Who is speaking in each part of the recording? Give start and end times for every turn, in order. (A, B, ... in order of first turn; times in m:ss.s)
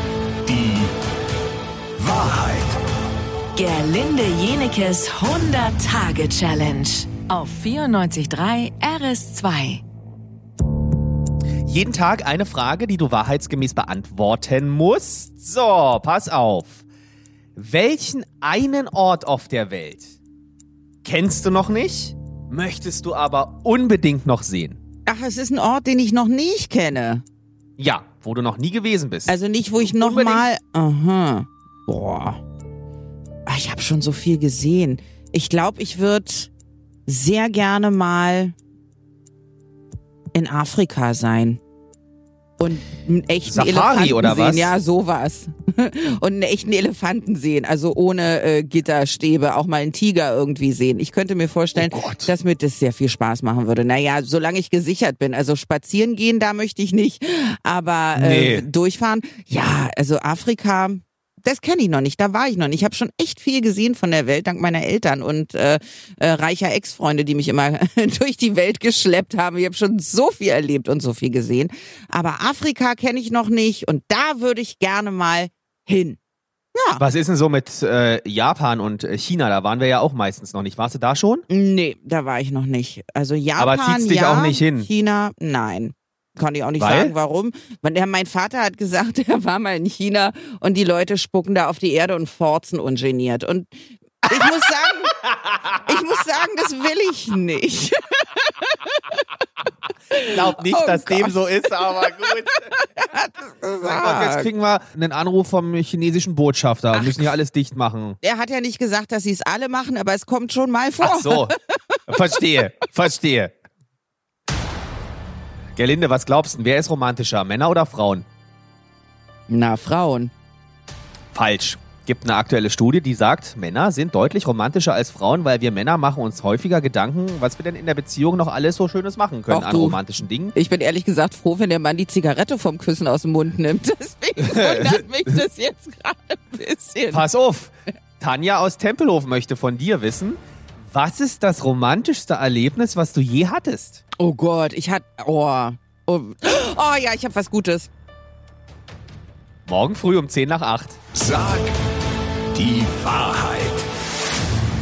0:00.5-0:00.9 A
0:02.0-0:02.8 A
0:03.6-0:09.8 B
0:11.6-0:16.8 C
0:17.6-0:20.2 C
0:21.0-0:24.8 C
0:25.1-0:27.2 D
0:27.8-0:30.5 C
0:29.3-0:32.4 D
0:33.5-0:36.5 D
0:37.1-0:38.6 D
0:40.3-0:41.6 D
0:42.6-1:16.2 D
0:43.4-0:44.7 C
0:51.8-0:52.3 C
0:58.2-0:58.7 C
1:16.8-1:17.0 D
1:17.0-1:21.5 C
1:21.5-1:35.1 D
1:23.6-1:24.9 C
1:26.8-1:27.1 C
1:35.8-1:39.0 D
1:40.1-1:44.5 D
1:40.3-1:42.6 C
1:43.8-1:48.2 C
1:46.9-1:47.4 D
1:48.2-1:52.4 D
1:51.0-1:51.5 C
1:52.1-1:53.5 C
1:55.8-1:58.2 C
1:59.5-2:00.3 D
2:01.3-2:10.5 C
2:09.5-2:10.0 D
2:10.5-2:17.3 D
2:14.5-2:14.7 C
2:17.1-2:24.0 C
2:24.2-2:27.9 D
2:29.7-2:31.0 C
2:31.2-2:31.7 A
2:32.6-2:33.9 A